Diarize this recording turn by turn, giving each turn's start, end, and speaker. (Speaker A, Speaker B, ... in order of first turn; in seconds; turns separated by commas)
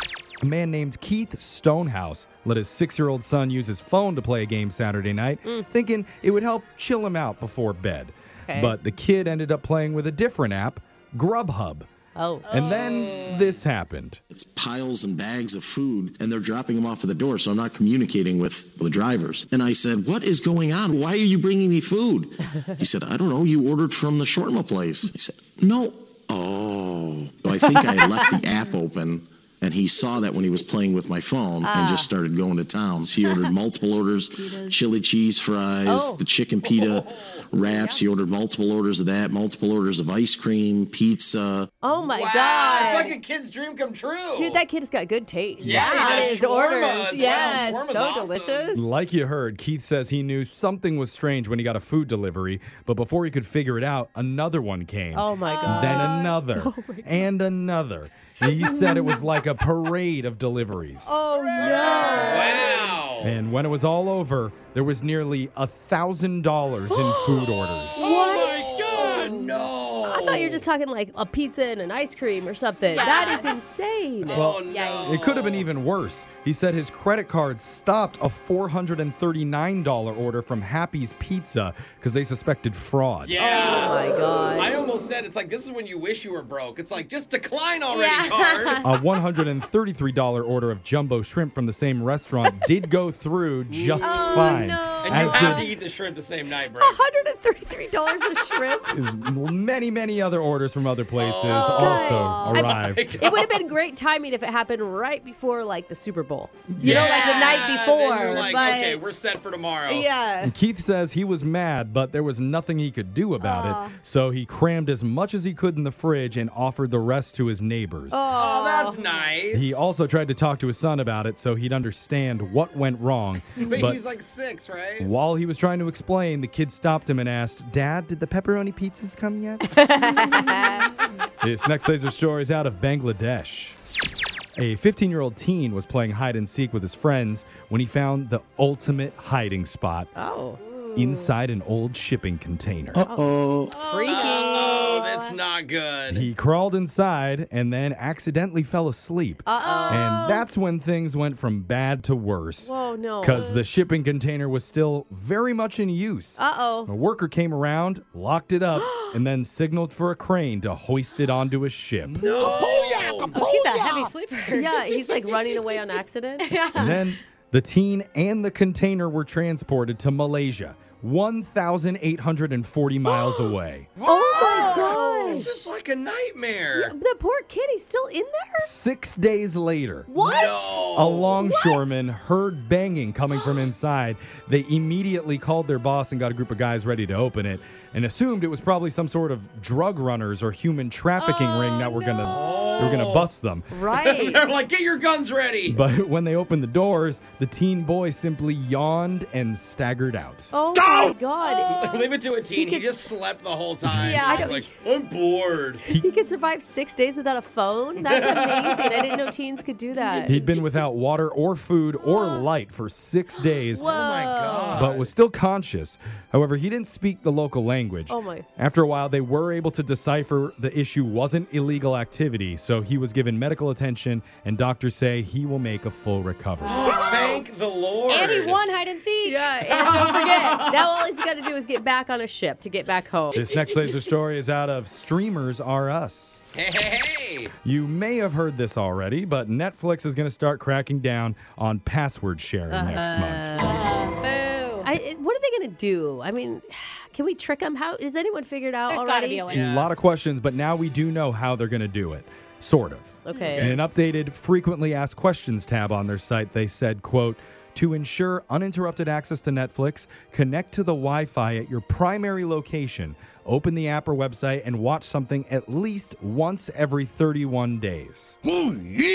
Speaker A: 0.4-11.9, Speaker B: 8.5-8.8, Speaker B: 12.2-12.5, Speaker A: 12.5-14.2, Speaker C: 12.5-13.5, Speaker D: 14.3-41.7, Speaker B: 27.8-28.3, Speaker B: 31.6-32.1, Speaker B: 35.8-36.2, Speaker E: 36.6-37.4, Speaker B: 37.6-38.0, Speaker B: 41.8-43.1, Speaker E: 41.9-44.6, Speaker B: 44.4-48.9, Speaker E: 45.6-48.7, Speaker A: 45.6-46.0, Speaker A: 48.7-61.2, Speaker B: 55.1-57.3, Speaker B: 58.4-59.2, Speaker B: 61.0-62.9, Speaker E: 61.6-63.4, Speaker A: 63.2-68.1, Speaker B: 66.9-67.4, Speaker E: 67.5-70.6, Speaker B: 68.0-69.5, Speaker B: 70.0-74.5, Speaker C: 72.9-73.5, Speaker E: 74.2-75.7, Speaker A: 74.3-83.4, Speaker C: 74.7-75.1, Speaker E: 83.2-88.8, Speaker B: 83.4-84.8, Speaker C: 87.9-88.8, Speaker A: 88.8-95.7, Speaker E: 93.7-94.1, Speaker B: 94.0-95.7, Speaker C: 94.3-94.6, Speaker E: 95.0-97.0, Speaker B: 96.8-98.9, Speaker A: 98.9-103.1, Speaker E: 101.1-103.6, Speaker B: 101.5-102.6, Speaker C: 101.6-102.6, Speaker B: 103.2-109.0, Speaker A: 106.7-107.2, Speaker E: 106.8-110.1, Speaker B: 109.9-110.5, Speaker A: 110.4-118.2, Speaker C: 113.4-113.9, Speaker B: 118.1-119.0, Speaker E: 118.3-119.9, Speaker A: 119.5-124.0, Speaker E: 123.6-125.1, Speaker A: 125.0-130.0, Speaker B: 129.8-130.9, Speaker A: 131.4-133.8, Speaker A: 134.6-140.1, Speaker B: 140.2-140.6, Speaker A: 140.9-143.1, Speaker B: 143.0-144.9, Speaker C: 143.7-145.4, Speaker E: 144.0-146.3, Speaker A: 146.1-162.3, Speaker B: 149.4-150.4, Speaker C: 149.6-150.4, Speaker B: 152.6-153.5, Speaker B: 156.4-156.9, Speaker B: 158.8-159.2, Speaker E: 162.1-163.7, Speaker B: 162.2-162.8, Speaker C: 163.3-164.8, Speaker B: 164.5-166.6, Speaker C: 166.4-167.0, Speaker A: 166.7-174.9, Speaker E: 173.2-173.5, Speaker E: 174.0-176.9, Speaker B: 174.0-175.6, Speaker B: 176.7-178.7, Speaker A: 178.6-180.1, Speaker B: 180.1-180.8, Speaker E: 180.2-181.4, Speaker A: 180.9-193.7, Speaker B: 181.4-181.9, Speaker C: 191.2-192.8, Speaker E: 192.2-193.3, Speaker B: 193.7-194.5, Speaker E: 193.9-195.8, Speaker A: 195.7-200.5, Speaker B: 200.5-202.9, Speaker E: 200.7-205.9, Speaker A: 203.8-204.2, Speaker C: 204.0-204.3, Speaker B: 204.2-204.7, Speaker B: 205.9-210.4, Speaker E: 207.9-209.3, Speaker A: 210.2-213.9, Speaker B: 213.7-214.9, Speaker E: 213.7-215.1, Speaker A: 214.7-227.0, Speaker B: 218.1-218.4, Speaker E: 226.6-228.6, Speaker B: 226.9-227.4, Speaker C: 228.1-229.4, Speaker B: 229.2-233.5, Speaker E: 229.5-230.9, Speaker C: 230.0-230.5, Speaker A: 233.3-236.5, Speaker E: 236.6-237.5, Speaker A: 237.6-243.8, Speaker B: 242.7-243.8, Speaker C: 243.6-244.9, Speaker B: 244.8-249.5, Speaker C: 248.9-249.6, Speaker E: 249.5-249.9, Speaker A: 249.5-268.4, Speaker B: 253.3-253.7, Speaker E: 253.5-253.8